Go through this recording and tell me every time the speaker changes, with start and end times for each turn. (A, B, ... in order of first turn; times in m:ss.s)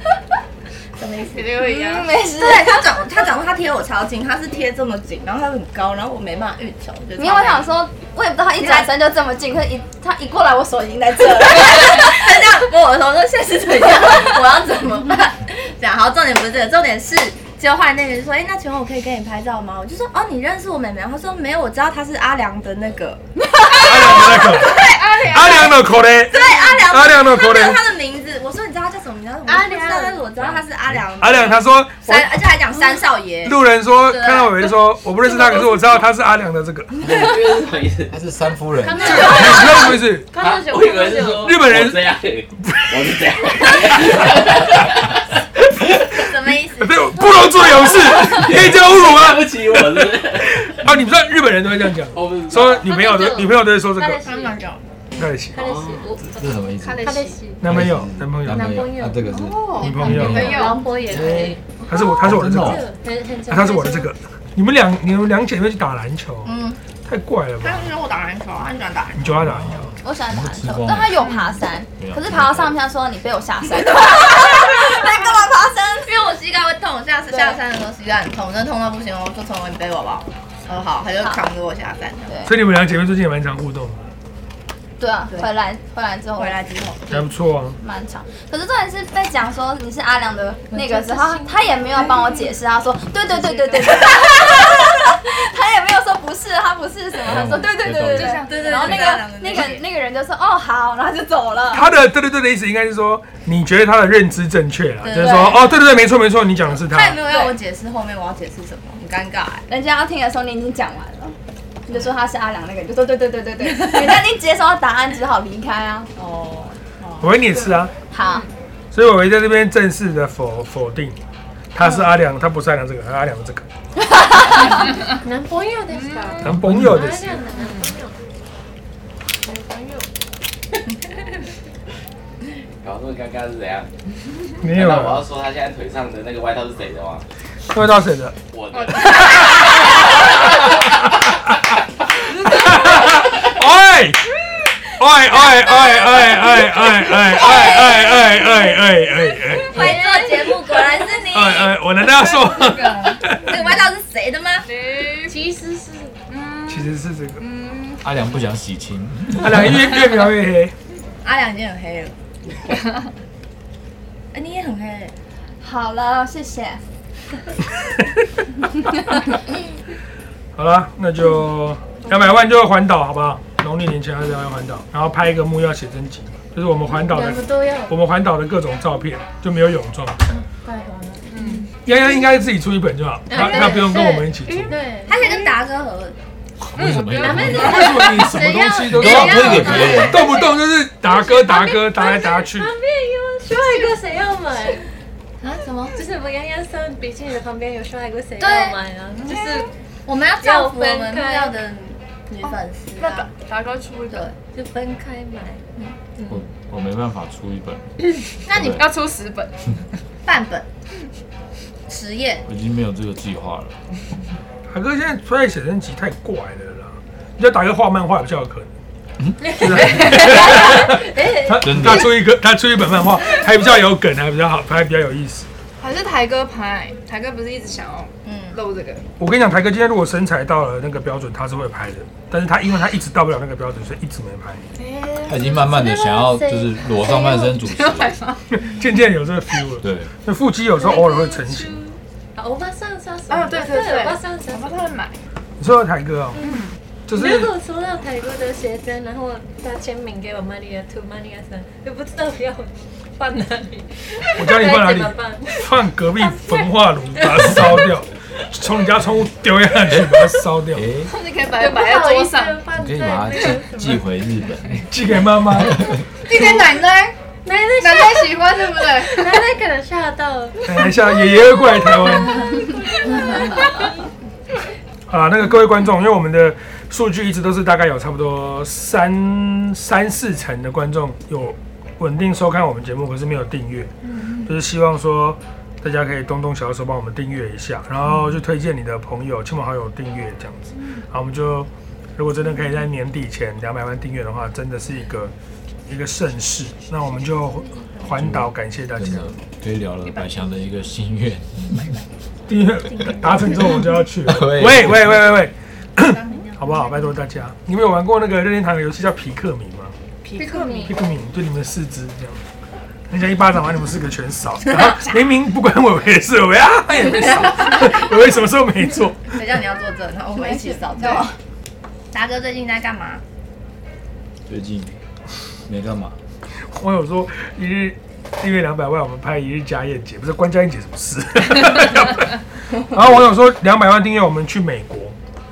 0:01.0-0:01.5 A
0:01.3-0:02.1 B
0:01.6-0:02.8 C
0:02.3-0:07.7 A
0:07.2-0:12.2 C
0:08.6-0:08.9 A
0:11.3-0:25.7 A
0:23.8-0:27.8 D
0:24.8-0:25.9 B
0:26.3-0:33.6 A
0:29.5-0:30.2 E
0:31.2-0:32.4 D
0:33.4-0:37.0 D
0:34.1-0:34.5 A
0:37.0-0:38.1 F
0:38.1-0:39.5 G
0:38.8-0:41.5 E
0:39.0-0:40.3 D
0:40.3-0:45.2 F
0:41.4-0:42.0 D
0:42.6-0:44.9 D
0:45.7-0:54.3 D
0:46.0-0:48.2 A
0:48.3-0:50.7 F
0:52.1-0:52.9 F
0:52.7-0:54.6 E
0:54.1-0:54.9 A
0:55.2-0:55.6 D
0:55.5-0:57.6 E
0:55.6-0:56.1 F
0:56.2-0:57.1 G
0:56.8-0:57.4 B
0:57.6-0:58.8 D
0:57.6-1:01.6 G
0:58.5-0:59.4 E
0:59.3-1:01.0 B
0:59.8-1:00.6 D
1:00.0-1:04.1 E
1:01.9-1:02.8 D
1:02.2-1:02.8 G
1:03.5-1:07.9 D
1:06.4-1:06.8 A
1:07.6-1:09.2 A
1:09.2-1:10.0 D
1:09.4-1:11.2 G
1:10.0-1:16.2 C
1:12.0-1:12.8 G
1:16.1-1:22.3 A
1:17.3-1:17.6 C
1:22.5-1:24.0 D
1:25.0-1:26.6 C
1:26.4-1:27.1 A
1:27.1-1:27.8 D
1:27.8-1:41.9 C
1:30.7-1:31.5 E
1:33.3-1:33.9 B
1:37.2-1:38.4 G
1:38.1-1:39.0 B
1:38.2-1:39.9 A
1:41.7-1:47.2 D
1:45.0-1:45.8 A
1:46.8-1:49.6 A
1:49.7-1:56.1 C
1:53.8-1:54.3 A
1:56.2-1:57.4 A
1:57.2-1:57.9 D
1:58.1-1:58.5 C
1:58.9-2:01.2 D
2:01.7-2:03.7 D
2:04.3-2:04.6 C
2:05.1-2:08.2 E
2:05.9-2:06.5 B
2:06.4-2:07.4 D
2:07.4-2:08.0 B
2:09.4-2:10.1 B
2:12.8-2:13.9 F
2:14.6-2:15.3 D
2:14.7-2:17.2 F
2:17.7-2:18.4 D
2:18.5-2:19.6 F
2:18.7-2:20.2 B
2:19.3-2:21.6 D
2:22.4-2:22.8 B
2:22.4-2:24.4 D
2:24.9-2:30.0 D
2:27.3-2:28.1 A
2:29.6-2:31.8 A
2:29.7-2:31.2 E
2:31.3-2:33.6 D
2:32.2-2:33.2 B
2:33.1-2:34.7 A
2:34.6-2:35.4 B
2:35.2-2:36.2 E
2:36.3-2:38.0 B
2:36.7-2:37.4 D
2:38.0-2:39.9 G
2:39.3-2:40.7 D
2:41.2-2:42.1 A
2:44.3-2:45.1 A
2:45.6-2:46.8 C
2:50.6-3:00.2 D
2:56.9-2:58.0 E
3:00.3-3:01.7 E
3:01.3-3:01.7 B
3:01.8-3:04.8 D
3:03.3-3:05.5 E
3:05.1-3:06.2 A
3:06.7-3:07.9 G
3:07.0-3:14.9 E
3:07.2-3:12.7 D
3:08.9-3:10.2 G
3:09.7-3:10.4 A
3:13.6-3:13.9 A
3:15.4-3:16.0 A
3:16.0-3:19.7 E
3:18.4-3:18.8 A
3:19.3-3:19.6 B
3:20.1-3:23.3 A
3:20.4-3:21.6 E
3:22.4-3:24.3 B
3:24.5-3:25.6 E
3:26.2-3:26.4 E
3:26.3-3:27.8 G
3:28.5-3:28.8 A
3:28.5-3:29.6 B
3:28.5-3:28.8 G
3:30.2-3:30.7 A
3:31.9-3:32.4 A
3:32.4-3:33.8 G
3:34.7-3:38.7 D
3:39.5-3:41.8 E
3:39.5-3:45.5 D
3:41.6-3:42.2 G
3:45.8-3:49.0 B
3:48.2-3:48.6 A
3:49.2-3:54.6 D
3:54.8-3:55.6 B
3:55.3-3:58.1 G
3:55.5-3:57.5 E
3:57.2-3:58.4 B
3:58.5-4:01.8 D
3:59.8-4:00.1 G
4:00.8-4:01.8 E
4:02.4-4:04.9 E
4:03.3-4:05.2 B
4:05.6-4:06.4 D
4:06.4-4:15.6 E
4:06.4-4:06.8 B
4:07.1-4:07.5 D
4:14.4-4:20.9 D
4:16.2-4:17.6 E
4:20.7-4:21.1 G
4:21.1-4:22.7 B
4:21.6-4:24.1 E
4:22.8-4:24.9 G
4:24.9-4:25.8 D
4:25.6-4:26.0 G
4:26.2-4:27.2 B
4:27.4-4:30.7 E
4:27.8-4:29.5 B
4:30.7-4:32.7 D
4:31.9-4:33.9 E
4:35.1-4:43.9 D
4:44.0-4:44.5 B
4:44.4-4:55.3 D
4:55.9-4:59.4 D
4:58.0-5:02.0 G
5:00.0-5:00.5 B
5:02.5-5:10.0 D
5:02.9-5:03.7 A
5:04.2-5:05.3 G
5:06.1-5:06.9 A
5:10.2-5:11.0 B
5:10.4-5:11.0 E
5:10.9-5:12.4 D
5:13.1-5:19.4 D
5:19.3-5:21.3 A
5:20.4-5:21.3 C
5:22.1-5:23.2 A
5:24.5-5:25.0 G
5:25.7-5:26.2 G
5:26.7-5:35.2 D